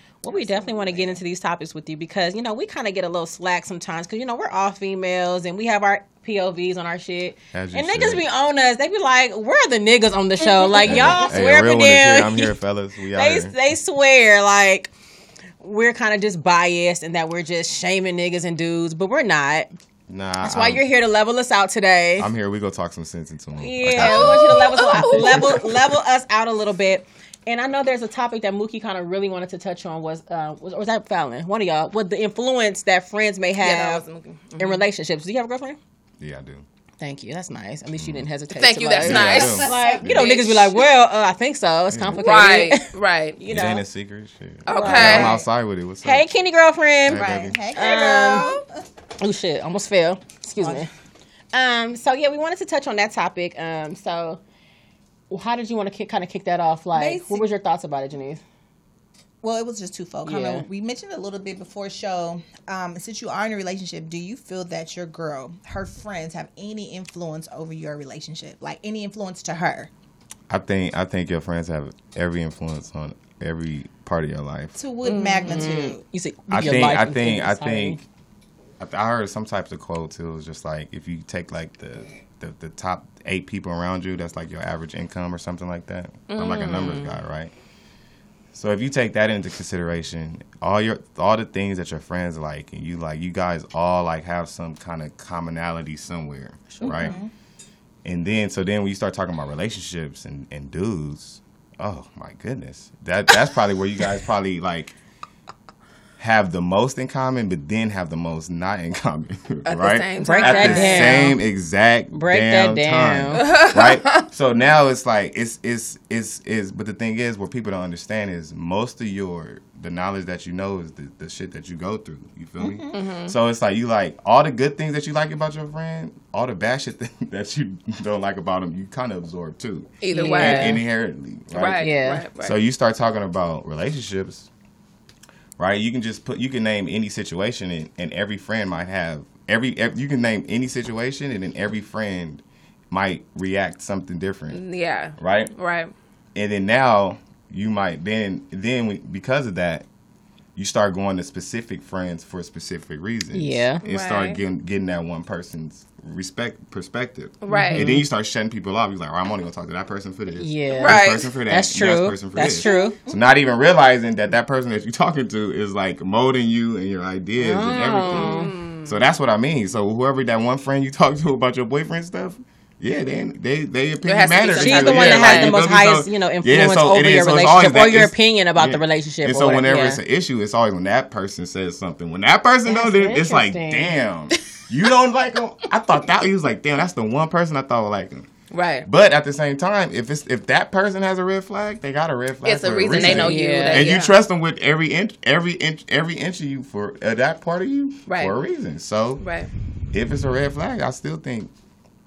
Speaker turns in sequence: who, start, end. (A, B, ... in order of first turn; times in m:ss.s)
0:00.2-0:12.5 A
0:00.3-0:01.2 B
0:07.5-0:08.2 C
0:10.8-0:11.3 B
0:10.8-0:13.6 C
0:13.1-0:14.9 A
0:15.6-0:19.7 A
0:20.1-0:20.8 C
0:20.4-0:22.3 A
0:22.2-0:25.6 C
0:23.6-0:34.0 A
0:23.9-0:25.7 D
0:33.6-0:34.8 D
0:34.6-0:35.8 A
0:36.2-0:36.6 C
0:37.0-0:43.8 A
0:38.0-0:38.3 C
0:38.5-0:40.8 D
0:39.0-0:40.4 C
0:39.2-0:40.0 B
0:41.9-0:42.4 C
0:42.1-0:43.4 D
0:43.5-0:46.2 C
0:44.6-0:45.4 D
0:44.7-0:45.4 A
0:45.0-0:45.4 B
0:46.0-0:48.6 A
0:47.0-0:47.6 C
0:47.1-0:48.7 B
0:49.2-0:50.9 A
0:50.6-0:50.9 B
0:51.5-0:54.4 A
0:55.3-0:58.4 A
0:56.9-0:57.4 B
0:59.4-1:09.9 B
1:00.2-1:00.6 A
1:10.5-1:14.8 C
1:14.8-1:16.0 B
1:15.0-1:15.6 D
1:15.0-1:18.0 A
1:16.5-1:18.0 C
1:18.8-1:27.5 C
1:26.3-1:27.0 D
1:26.8-1:27.1 A
1:28.5-1:37.2 C
1:36.7-1:37.2 A
1:36.8-1:37.3 B
1:38.0-1:44.9 C
1:46.2-2:11.9 C
1:49.6-1:51.2 D
1:50.2-1:51.4 A
1:52.1-1:53.5 A
1:53.4-1:54.3 D
2:02.6-2:03.0 B
2:02.9-2:03.3 D
2:10.0-2:10.8 D
2:10.1-2:10.8 A
2:11.5-2:12.5 D
2:11.8-2:12.2 A
2:12.4-2:14.5 C
2:15.6-2:24.6 C
2:24.5-2:25.9 D
2:25.2-2:25.5 C
2:26.3-2:29.8 C
2:30.6-3:08.3 C
2:33.3-2:33.8 A
2:33.8-2:34.4 D
2:37.4-2:37.9 D
2:37.5-2:38.0 A
2:40.4-2:43.0 A
2:40.8-2:41.3 D
2:42.6-2:43.2 B
2:47.4-2:48.5 A
2:48.1-2:48.9 D
2:54.0-2:55.7 D
2:54.6-3:00.0 A
3:02.6-3:03.9 A
3:08.5-3:08.8 D
3:08.8-3:19.2 C
3:12.4-3:14.1 D
3:13.0-3:13.9 A
3:18.1-3:18.3 D
3:19.2-3:19.5 D
3:19.9-3:21.5 C